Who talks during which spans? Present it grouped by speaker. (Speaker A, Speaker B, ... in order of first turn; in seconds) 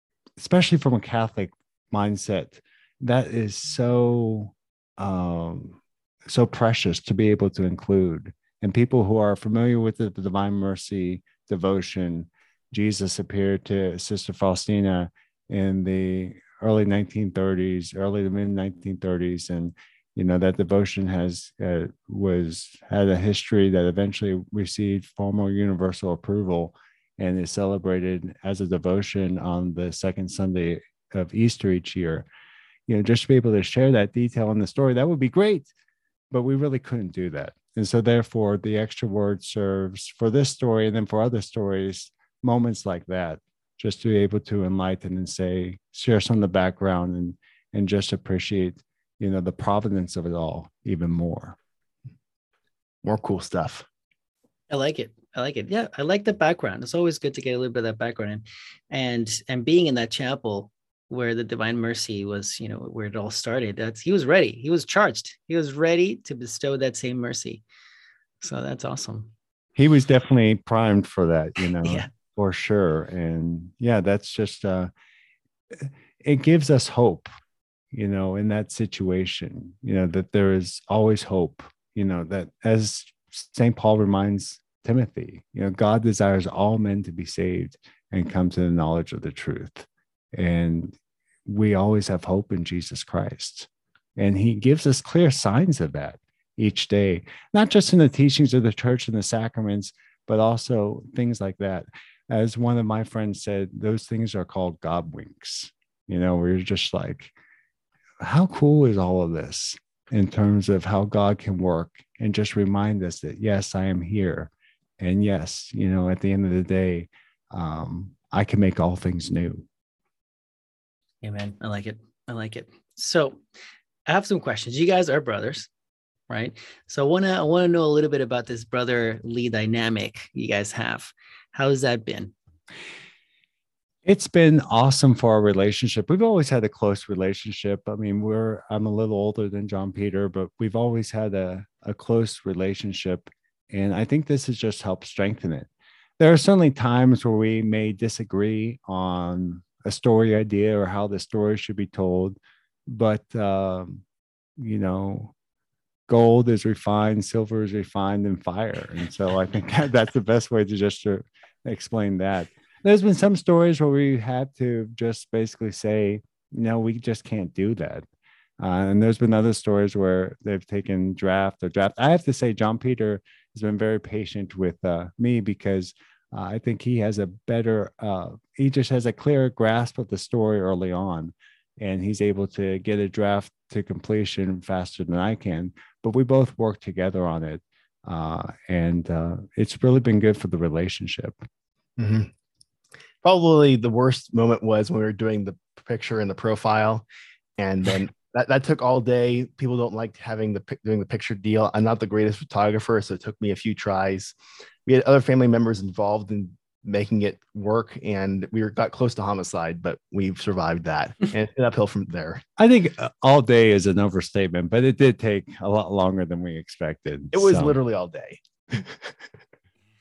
Speaker A: 0.4-32.3, 32.9-35.7, 36.3-51.6, 69.8-74.9, 75.7-77.3, 77.9-107.3, 108.2-119.7, 134.1-152.4, 152.9-154.0, 154.6-155.3, 156.1-168.1, 168.6-191.4, 212.6-217.8
Speaker B: 53.0-53.9, 192.0-192.3, 193.2-197.1, 197.6-204.3, 204.9-212.4, 217.3-219.1
Speaker C: 54.7-67.6, 68.4-69.3, 121.2-123.4, 124.1-125.7, 126.3-132.3